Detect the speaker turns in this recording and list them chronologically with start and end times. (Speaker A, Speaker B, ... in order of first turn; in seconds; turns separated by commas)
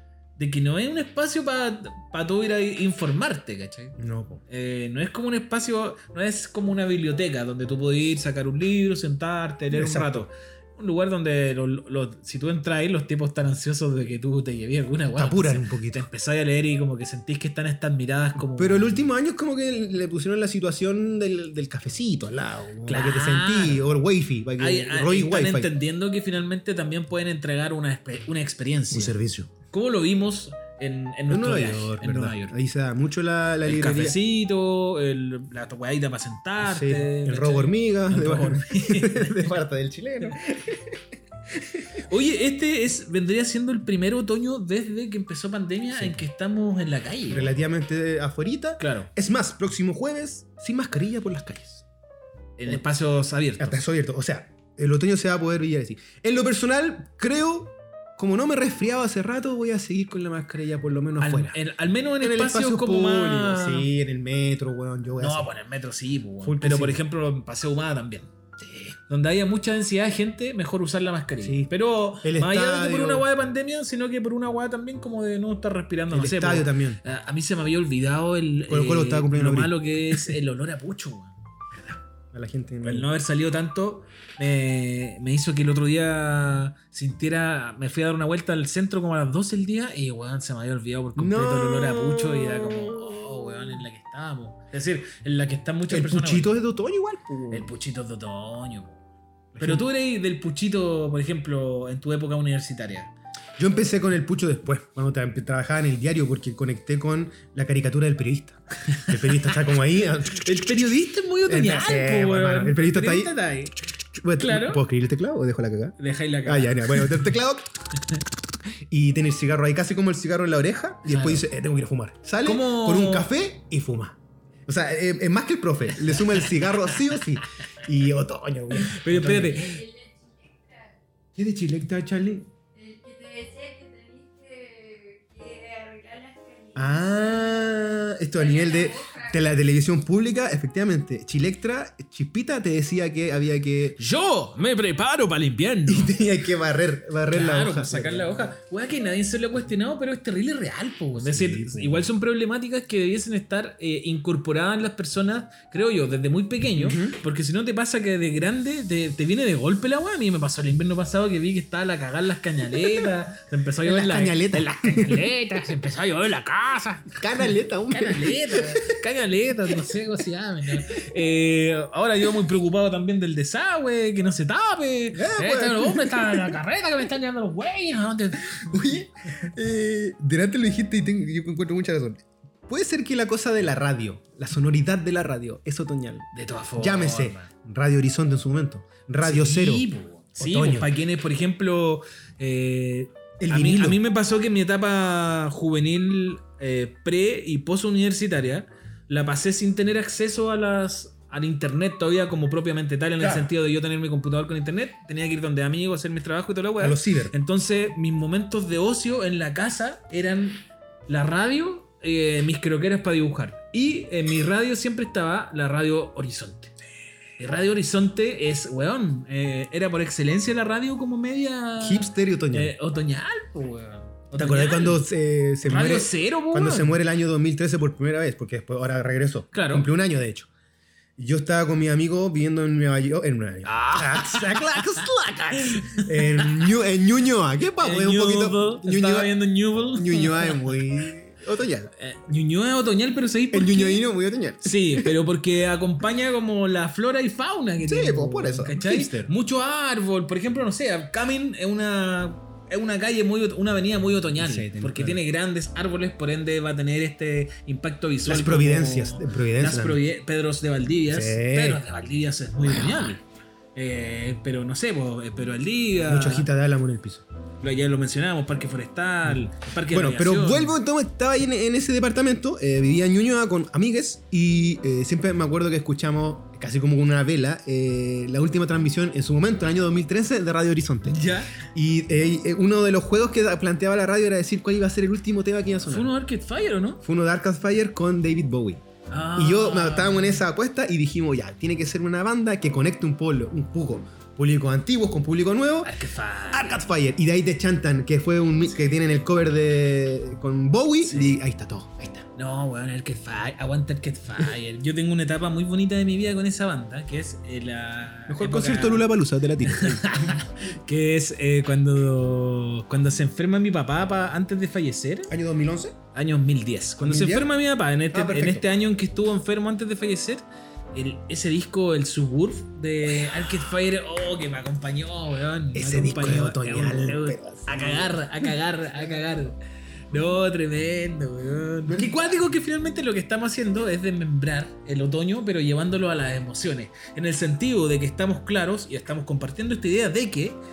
Speaker A: 0.4-18.9, Speaker B: 4.0-4.4, Speaker B: 9.7-10.2, Speaker B: 15.2-16.1, Speaker B: 18.4-25.7, Speaker A: 22.9-23.9, Speaker A: 24.6-32.5, Speaker B: 28.9-29.5, Speaker B: 31.3-34.2, Speaker A: 33.6-39.5, Speaker B: 36.6-42.0, Speaker A: 42.0-47.5, Speaker B: 45.9-46.2, Speaker B: 47.3-51.8, Speaker A: 48.8-49.1, Speaker A: 52.6-53.8, Speaker B: 53.6-61.6, Speaker A: 61.2-63.9, Speaker B: 62.2-65.5, Speaker A: 65.2-68.3, Speaker B: 66.4-67.0, Speaker A: 69.0-81.3, Speaker B: 71.4-73.3, Speaker B: 76.1-77.0, Speaker B: 78.7-80.3, Speaker B: 81.9-83.1, Speaker A: 82.8-96.5, Speaker B: 91.2-93.6, Speaker B: 95.9-97.7, Speaker A: 97.5-99.0, Speaker A: 99.5-103.1, Speaker B: 99.5-99.9, Speaker B: 103.6-113.3, Speaker A: 108.9-109.5, Speaker A: 110.3-113.8, Speaker B: 114.1-117.7, Speaker A: 114.4-114.8, Speaker A: 116.0-117.3, Speaker B: 118.9-129.6, Speaker A: 121.0-121.4, Speaker A: 122.4-123.3, Speaker A: 126.0-127.2, Speaker A: 128.7-129.8, Speaker C: 129.3-131.0, Speaker B: 131.3-132.5, Speaker C: 132.7-139.4, Speaker B: 136.8-144.0, Speaker A: 144.0-146.2, Speaker B: 145.9-148.3, Speaker A: 147.3-179.0, Speaker B: 151.2-152.1, Speaker B: 156.7-157.2, Speaker B: 163.8-165.3, Speaker B: 167.2-168.9, Speaker B: 175.1-176.6, Speaker B: 178.5-189.8, Speaker A: 186.3-187.5, Speaker A: 189.2-216.7, Speaker B: 190.4-190.9, Speaker B: 193.4-194.0, Speaker B: 203.2-203.5, Speaker B: 206.8-207.3, Speaker A: 217.4-225.1, Speaker B: 221.8-222.7, Speaker B: 224.3-230.5, Speaker A: 225.6-226.9, Speaker A: 229.5-229.9, Speaker B: 231.2-241.9, Speaker A: 233.6-236.7, Speaker A: 237.8-240.8, Speaker A: 242.0-244.0, Speaker B: 243.5-245.1, Speaker A: 244.6-263.2, Speaker B: 247.8-249.3, Speaker B: 254.4-255.2, Speaker B: 258.2-260.0, Speaker B: 261.1-261.8, Speaker B: 262.6-263.1, Speaker A: 263.7-266.5, Speaker B: 266.1-267.2, Speaker A: 267.6-270.7, Speaker B: 269.3-286.1, Speaker A: 281.1-281.6, Speaker A: 285.9-287.0, Speaker B: 287.0-288.8, Speaker A: 289.1-290.4, Speaker B: 289.3-295.9, Speaker A: 295.8-296.8, Speaker B: 296.5-302.2, Speaker A: 301.0-301.3, Speaker A: 302.3-309.1, Speaker B: 308.3-310.4, Speaker A: 309.6-315.3, Speaker B: 315.3-316.0, Speaker A: 316.1-329.6, Speaker B: 317.0-317.5, Speaker B: 318.1-318.6, Speaker B: 325.7-328.5, Speaker A: 330.1-340.6, Speaker B: 331.9-332.1